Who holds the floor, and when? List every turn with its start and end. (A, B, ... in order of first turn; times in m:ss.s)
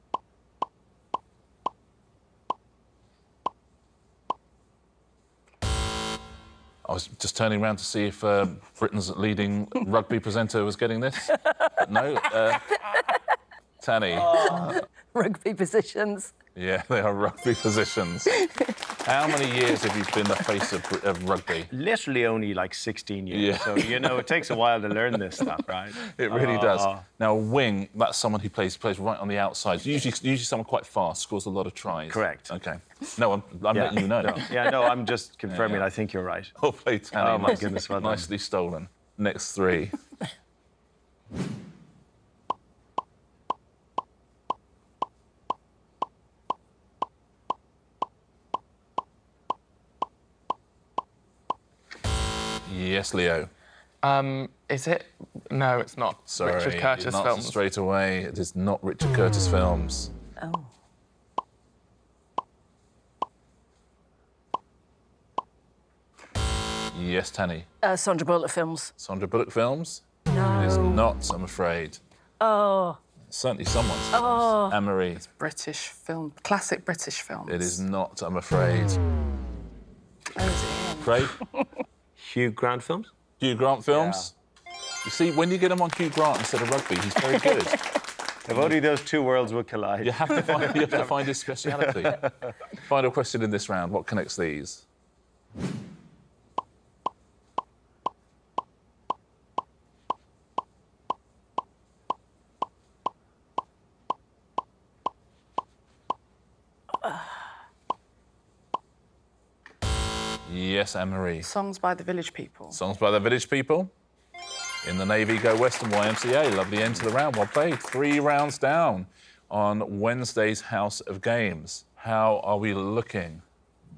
0:06.8-0:12.7 A
0:13.8-0:14.8 A
0:14.2-0:14.7 B
0:14.3-0:16.3 C
0:16.5-0:18.4 A
0:18.4-0:18.6 C
0:19.0-0:21.7 A
0:21.7-0:27.0 B
0:23.3-0:24.3 A
0:26.0-0:34.7 A
0:32.1-0:32.5 B
0:33.7-0:36.5 B
0:35.5-0:35.9 A
0:36.5-0:40.0 A
0:37.2-0:38.3 B
0:52.6-0:53.5 A
0:54.0-0:57.6 D
0:56.3-1:00.1 A
1:00.4-1:00.7 C
1:06.9-1:07.7 A
1:07.8-1:08.9 C
1:09.0-1:12.0 A
1:10.3-1:11.0 C
1:12.4-1:13.0 C
1:13.3-1:15.2 A
1:14.1-1:14.8 C
1:15.2-1:17.8 E
1:17.5-1:19.0 A
1:20.3-1:21.1 E
1:21.0-1:21.4 A
1:22.2-1:23.1 B
1:23.4-1:24.3 A
1:23.9-1:24.3 B
1:25.0-1:27.8 A
1:28.4-1:32.5 B
1:30.0-1:34.8 A
1:50.4-1:51.5 A
1:51.4-1:52.8 E
1:52.7-1:53.9 A
1:54.8-2:03.4 A